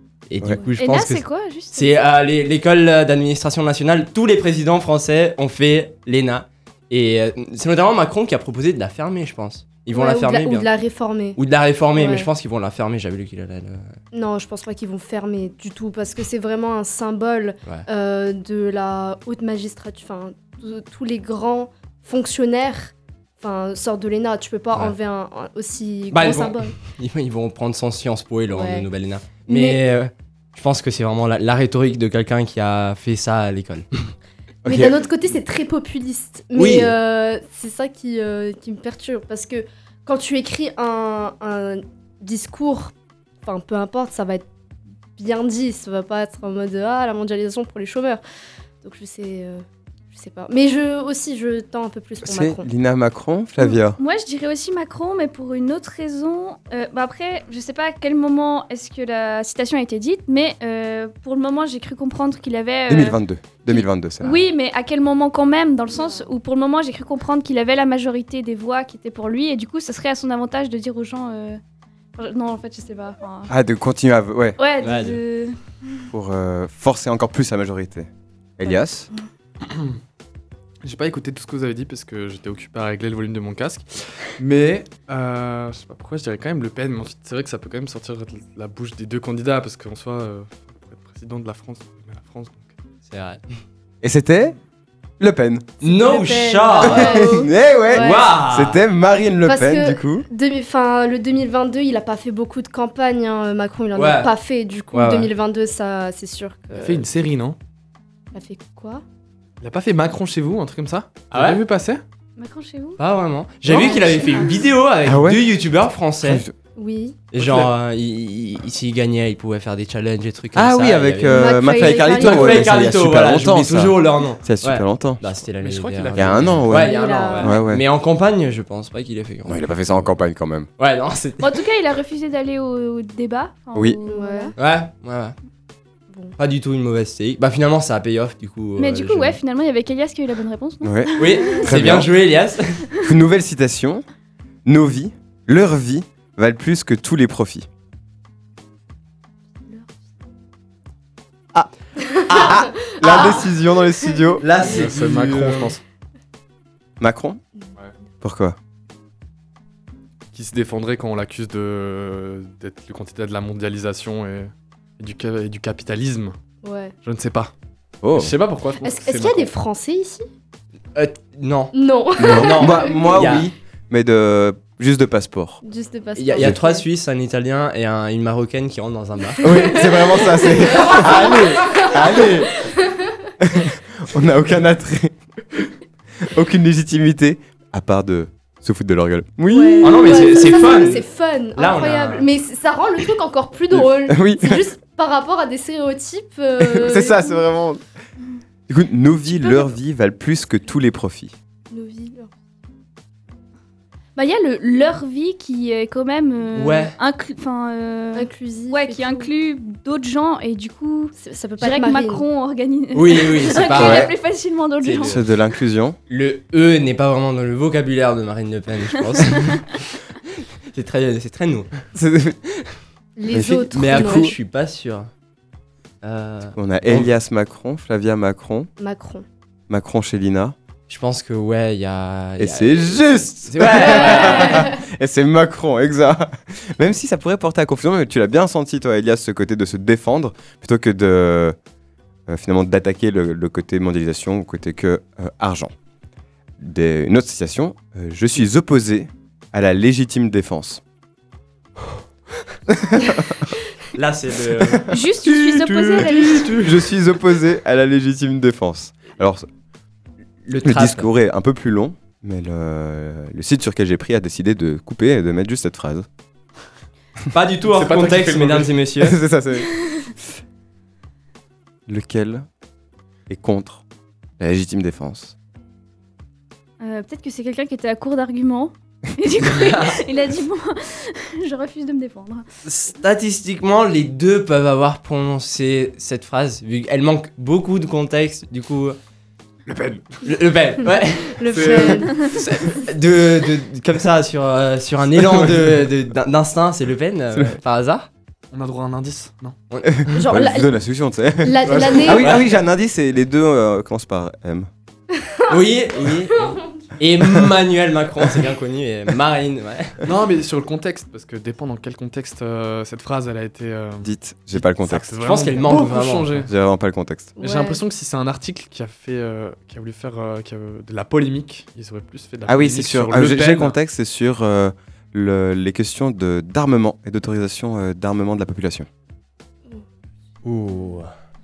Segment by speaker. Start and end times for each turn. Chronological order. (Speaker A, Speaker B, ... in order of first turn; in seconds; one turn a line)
Speaker A: 0.3-10.7
Speaker B: 0.8-2.0
Speaker C: 9.9-11.4
Speaker A: 11.4-13.9
Speaker C: 11.9-12.3
Speaker C: 14.1-26.7
Speaker A: 26.1-34.1
Speaker C: 28.5-28.9
Speaker C: 29.5-29.8
Speaker C: 34.6-44.4
Speaker D: 34.7-34.9
Speaker A: 36.5-36.9
Speaker C: 45.2-48.2
Speaker C: 48.8-52.6
Speaker D: 52.2-54.0
Speaker B: 53.6-71.6
Speaker D: 62.9-64.4
Speaker B: 72.2-73.5
Speaker D: 73.5-74.6
Speaker B: 74.6-76.0
Speaker A: 74.8-75.2
Speaker D: 76.1-79.1
Speaker E: 79.6-79.9
Speaker E: 80.8-92.7
Speaker A: 93.1-93.4
Speaker D: 94.0-94.5
Speaker D: 95.2-95.8
Speaker A: 95.8-97.3
Speaker C: 95.8-98.3
Speaker D: 96.8-100.2
Speaker A: 97.9-98.8
Speaker C: 99.4-107.1
Speaker A: 103.9-104.3
Speaker A: 104.9-105.3
Speaker E: 106.7-107.6
Speaker C: 108.3-109.0
Speaker E: 109.6-112.0
Speaker A: 111.3-111.6
Speaker B: 112.4-113.0
Speaker A: 113.0-116.4
Speaker C: 113.7-114.6
Speaker B: 113.9-114.5
Speaker D: 115.0-115.4
Speaker D: 116.2-116.5
Speaker C: 116.8-117.2
Speaker A: 117.3-129.7
Speaker E: 117.3-117.7
Speaker D: 120.5-125.2
Speaker C: 121.3-123.0
Speaker E: 125.6-126.7
Speaker D: 126.1-127.8
Speaker C: 126.7-127.6
Speaker D: 129.5-130.7
Speaker A: 130.8-131.5
Speaker B: 131.4-134.6
Speaker D: 133.7-134.0
Speaker C: 134.1-134.6
Speaker A: 134.6-135.3
Speaker C: 136.1-136.4
Speaker A: 136.4-139.4
Speaker B: 138.8-141.7
Speaker D: 140.8-142.1
Speaker A: 141.2-142.8
Speaker D: 143.0-144.0
Speaker D: 144.6-147.7
Speaker C: 152.1-153.6
Speaker D: 152.3-155.7
Speaker A: 154.4-155.4
Speaker E: 154.6-155.8
Speaker D: 157.0-157.4
Speaker D: 158.2-158.6
Speaker E: 160.3-166.3
Speaker C: 166.6-166.9
Speaker E: 167.0-167.5
Speaker D: 168.0-168.3
Speaker E: 168.1-169.5
Speaker C: 168.8-170.2
Speaker A: 170.9-173.4
Speaker C: 171.7-173.2
Speaker D: 172.2-175.6
Speaker C: 175.6-176.8
Speaker A: 176.2-179.5
Speaker C: 179.4-183.3
Speaker D: 179.4-182.7
Speaker D: 183.4-190.3
Speaker C: 189.5-197.4
Speaker A: 189.8-192.2
Speaker D: 193.7-194.6
Speaker D: 196.6-197.8
Speaker D: 198.7-201.3
Speaker C: 201.7-202.3
Speaker B: 204.2-215.2
Speaker A: 206.6-206.9
Speaker C: 208.1-209.3
Speaker C: 211.2-212.2
Speaker A: 212.9-214.1
Speaker D: 213.8-214.1
Speaker A: 214.8-215.2
Speaker D: 215.0-216.0
Speaker A: 216.1-219.9
Speaker B: 219.3-219.6
Speaker A: 220.7-221.7
Speaker D: 221.9-222.4
Speaker C: 223.2-224.3
Speaker D: 223.3-224.3
Speaker A: 223.7-225.1
Speaker A: 226.0-227.1
Speaker D: 226.5-228.7
Speaker C: 228.8-229.2
Speaker D: 229.7-230.6
Speaker A: 230.9-234.7
Speaker D: 232.4-241.6
Speaker C: 233.8-234.8
Speaker D: 242.3-245.7
Speaker D: 246.6-250.8
Speaker D: 252.7-253.4
Speaker A: 253.9-254.9
Speaker B: 254.9-256.4
Speaker E: 255.3-256.8
Speaker D: 256.6-259.4
Speaker A: 260.4-261.1
Speaker D: 260.6-266.1
Speaker A: 267.3-269.2
Speaker E: 267.7-268.8
Speaker D: 269.0-269.7
Speaker D: 271.9-272.4
Speaker D: 273.3-273.8
Speaker D: 274.4-275.3
Speaker B: 276.8-282.4
Speaker A: 279.6-279.9
Speaker A: 282.6-289.0
Speaker E: 289.7-290.2
Speaker A: 290.2-298.1
Speaker C: 291.0-292.4
Speaker E: 291.5-292.8
Speaker E: 298.5-299.6
Speaker D: 300.0-304.7
Speaker C: 300.1-300.7
Speaker C: 301.4-302.3
Speaker A: 302.1-302.4
Speaker A: 305.5-310.0
Speaker C: 306.3-306.6
Speaker E: 310.0-316.5
Speaker D: 314.0-315.1
Speaker A: 315.2-316.5
Speaker D: 316.5-317.3
Speaker C: 317.4-317.8
Speaker E: 317.4-323.8
Speaker D: 322.5-328.9
Speaker A: 330.4-331.1